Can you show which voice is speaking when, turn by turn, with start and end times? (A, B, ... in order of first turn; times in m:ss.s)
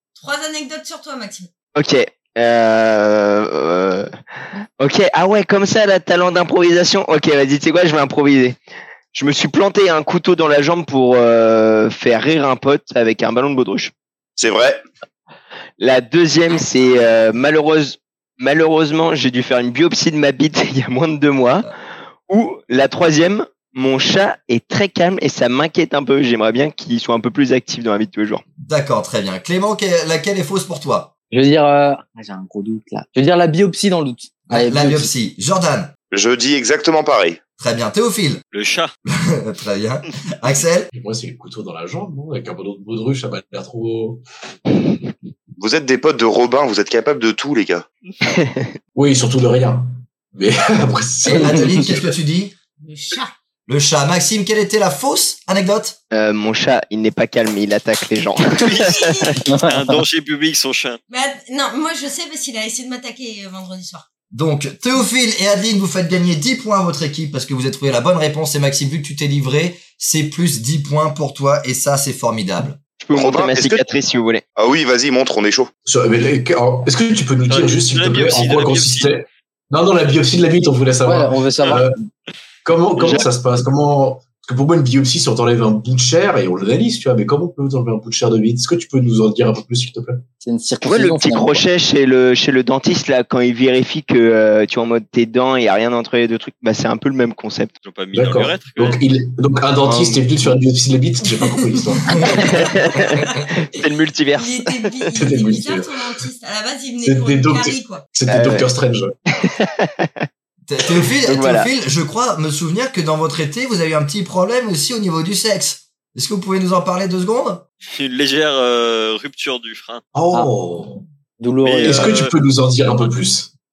0:00.2-0:01.5 A
0:01.8-0:04.1 B
0:04.8-0:08.6 B
0:09.1-0:13.9 B
0:14.4-0:14.8 C
0:15.8-0:21.7 B
0:22.3-0:28.4 B
0:28.6-0:31.1 D
0:31.3-0:35.1 E
0:34.5-0:35.9 D
0:36.1-0:37.4 C
0:37.6-0:38.4 D
0:38.5-0:38.9 F
0:39.1-0:40.9 D
0:40.9-0:44.2 G
0:45.6-0:47.8 C
0:48.2-0:48.7 B
0:49.0-0:52.0 G
0:51.2-0:52.5 D
0:51.4-0:51.8 E
0:52.8-0:53.3 A
0:53.7-0:56.0 D
0:56.1-0:59.3 B
0:58.7-0:59.4 A
0:59.5-1:00.0 E
0:59.6-1:01.0 F
1:01.1-1:04.0 A
1:04.3-1:12.8 D
1:13.0-1:14.4 B
1:13.1-1:13.8 C
1:14.6-1:15.7 C
1:15.9-1:22.0 G
1:17.5-1:19.1 F
1:21.0-1:22.0 E
1:22.6-1:30.2 G
1:23.0-1:23.3 F
1:30.4-1:31.6 E
1:30.8-1:37.7 B
1:37.8-1:39.1 F
1:38.1-1:42.4 G
1:39.9-1:40.3 B
1:42.1-1:43.2 D
1:42.2-1:43.4 A
1:42.5-1:44.8 B
1:44.4-1:48.0 A
1:45.2-1:46.0 G
1:47.0-1:49.1 G
1:48.3-1:48.7 B
1:49.3-1:50.3 B
1:50.7-1:57.6 D
1:51.2-1:51.7 B
1:57.9-2:00.0 F
2:00.1-2:01.0 G
2:01.4-2:02.3 E
2:01.6-2:02.4 F
2:01.8-2:03.5 G